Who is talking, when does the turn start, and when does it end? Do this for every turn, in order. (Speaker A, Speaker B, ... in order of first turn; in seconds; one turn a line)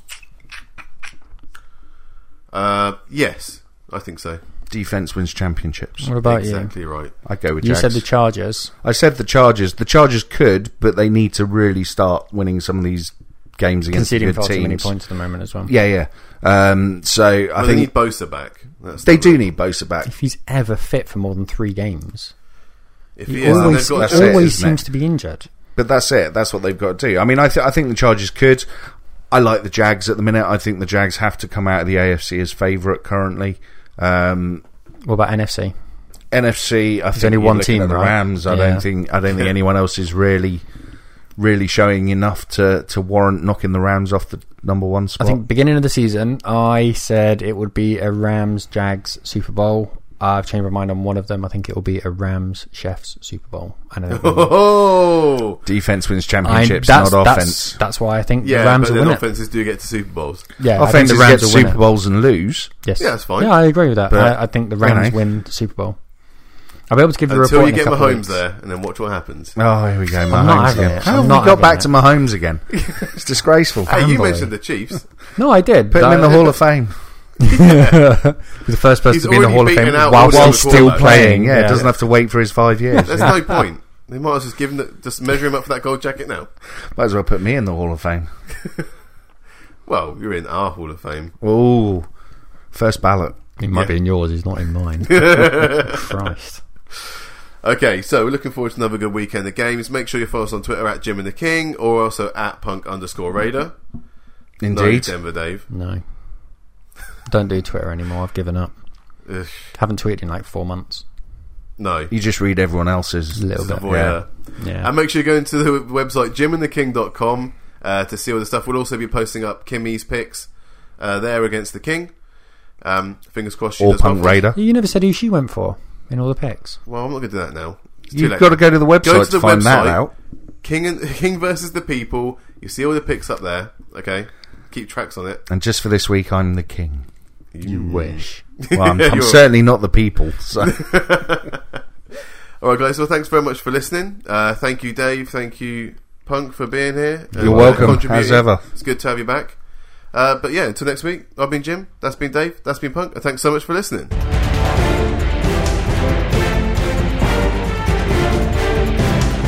Speaker A: 2.5-4.4
Speaker B: 4.7-6.1
Speaker C: 6.0-6.7
Speaker A: 6.2-7.1
Speaker B: 7.2-8.0
Speaker C: 7.6-8.7
Speaker B: 8.8-14.9
Speaker C: 13.9-15.7
Speaker B: 15.7-17.9
Speaker A: 17.6-19.5
Speaker B: 19.1-20.1
Speaker C: 20.1-22.3
Speaker A: 23.2-24.5
Speaker C: 23.3-25.5
Speaker B: 23.4-24.8
Speaker B: 25.8-28.7
Speaker B: 29.3-34.6
Speaker C: 35.1-35.7
Speaker B: 36.3-40.6
Speaker C: 37.2-38.9
Speaker B: 41.4-45.4
Speaker C: 45.2-54.6
Speaker A: 54.1-55.6
Speaker B: 55.7-57.8
Speaker C: 56.4-59.2
Speaker A: 58.4-60.5
Speaker C: 60.6-61.8
Speaker B: 60.8-62.7
Speaker C: 62.8-66.0
Speaker A: 63.0-63.6
Speaker B: 64.1-65.2
Speaker C: 66.9-68.4
Speaker A: 67.3-69.6
Speaker B: 69.6-73.9
Speaker C: 70.3-71.9
Speaker A: 72.8-73.2
Speaker A: 73.9-75.1
Speaker C: 73.9-74.5
Speaker C: 75.4-76.5
Speaker B: 75.9-77.0
Speaker C: 77.4-81.9
Speaker A: 77.6-78.0
Speaker A: 79.1-81.3
Speaker B: 80.2-83.4
Speaker A: 83.0-86.5
Speaker C: 83.2-83.5
Speaker B: 87.0-88.3
Speaker A: 89.9-91.3
Speaker B: 91.4-92.1
Speaker B: 92.7-93.4
Speaker C: 93.6-96.6
Speaker A: 95.1-96.1
Speaker A: 97.6-103.8
Speaker B: 104.6-105.1
Speaker A: 104.7-105.7
Speaker C: 105.7-106.0
Speaker C: 107.3-108.7
Speaker A: 109.3-109.7
Speaker C: 109.8-111.0
Speaker A: 111.8-112.1
Speaker B: 112.1-114.2
Speaker C: 113.4-114.9
Speaker A: 113.6-122.1
Speaker A: 122.8-124.4
Speaker B: 123.8-124.6
Speaker C: 124.5-126.8
Speaker A: 126.9-130.0
Speaker B: 128.1-130.1
Speaker A: 130.6-135.4
Speaker B: 135.5-137.1
Speaker A: 137.5-139.4
Speaker C: 137.7-138.4
Speaker B: 138.7-140.8
Speaker A: 140.6-141.6
Speaker A: 142.6-149.6
Speaker C: 147.3-148.0
Speaker B: 147.4-148.6
Speaker A: 150.1-154.1